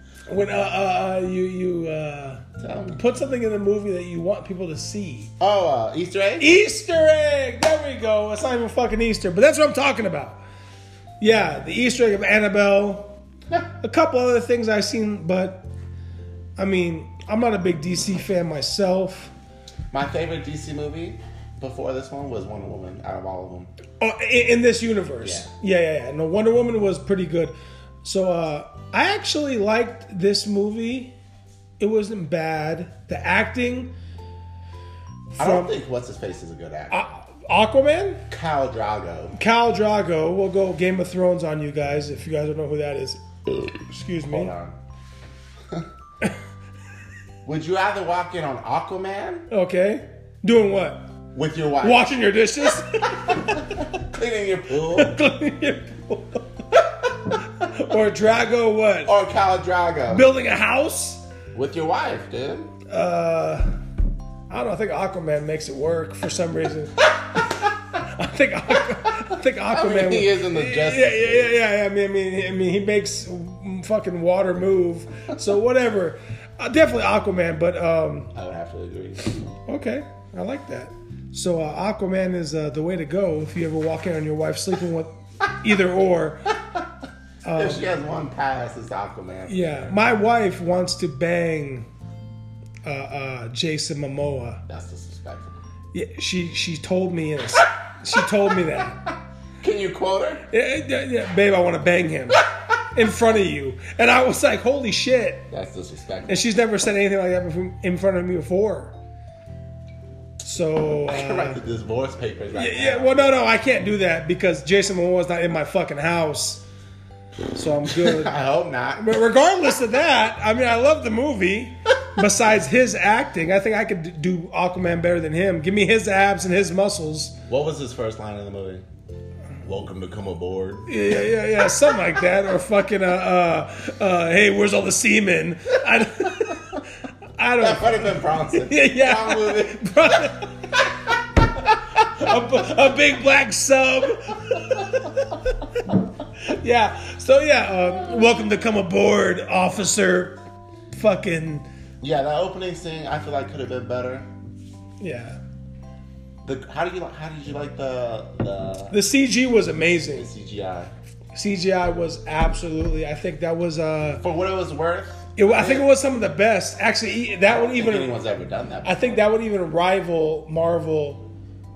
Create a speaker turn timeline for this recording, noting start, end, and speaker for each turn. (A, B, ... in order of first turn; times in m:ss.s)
0:00.3-0:05.3 A
0:02.6-0:03.0 B
0:05.4-0:06.6 B
0:06.4-0:10.4 A
0:11.2-0:13.2 A
0:13.8-0:15.7 A
0:16.6-0:19.3 A
0:19.9-0:23.7 B
0:24.0-0:31.1 A
0:25.2-0:25.5 B
0:31.8-0:33.9 A
0:35.3-0:35.8 A
0:35.4-0:37.1 B
0:36.9-0:38.2 A
0:38.3-0:39.4 B
0:39.3-0:43.2 A
0:43.9-0:44.5 A
0:44.2-0:44.8 B
0:47.4-0:49.5 B
0:49.5-0:51.1 A
0:51.3-0:52.1 B
0:51.8-0:53.6 A
0:53.2-0:55.2 B
0:54.9-0:56.8 A
0:57.6-0:59.1 A
0:59.1-1:00.3 B
1:00.1-1:01.2 A
1:01.5-1:02.7 B
1:02.9-1:03.7 A
1:04.5-1:07.0 A
1:08.0-1:18.3 A
1:09.7-1:11.6 B
1:18.3-1:19.5 B
1:19.7-1:26.4 A
1:27.4-1:27.8 A
1:27.6-1:30.0 B
1:29.5-1:31.9 A
1:32.8-1:34.6 A
1:34.7-1:35.6 B
1:35.9-1:39.0 A
1:39.6-1:40.4 B
1:40.5-1:45.5 A
1:45.5-1:46.4 B
1:46.3-1:48.9 A
1:50.4-1:51.6 A
1:51.1-1:53.3 B
1:52.5-1:56.6 A
1:57.5-1:58.4 A
1:57.9-1:59.2 B
1:59.0-2:07.4 A
2:07.5-2:08.8 B
2:09.6-2:10.9 B
2:10.9-2:16.8 A
2:17.4-2:20.7 A
2:17.6-2:19.9 B
2:22.0-2:25.3 A
2:26.4-2:30.4 A
2:30.9-2:31.7 A
2:32.0-2:34.3 B
2:35.0-2:35.4 A
2:36.4-2:39.0 B
2:38.9-2:40.3 A
2:40.1-2:40.9 B
2:41.3-2:44.2 A
2:44.2-2:45.9 B
2:45.4-2:48.1 A
2:47.5-2:49.0 B
2:48.8-2:51.2 A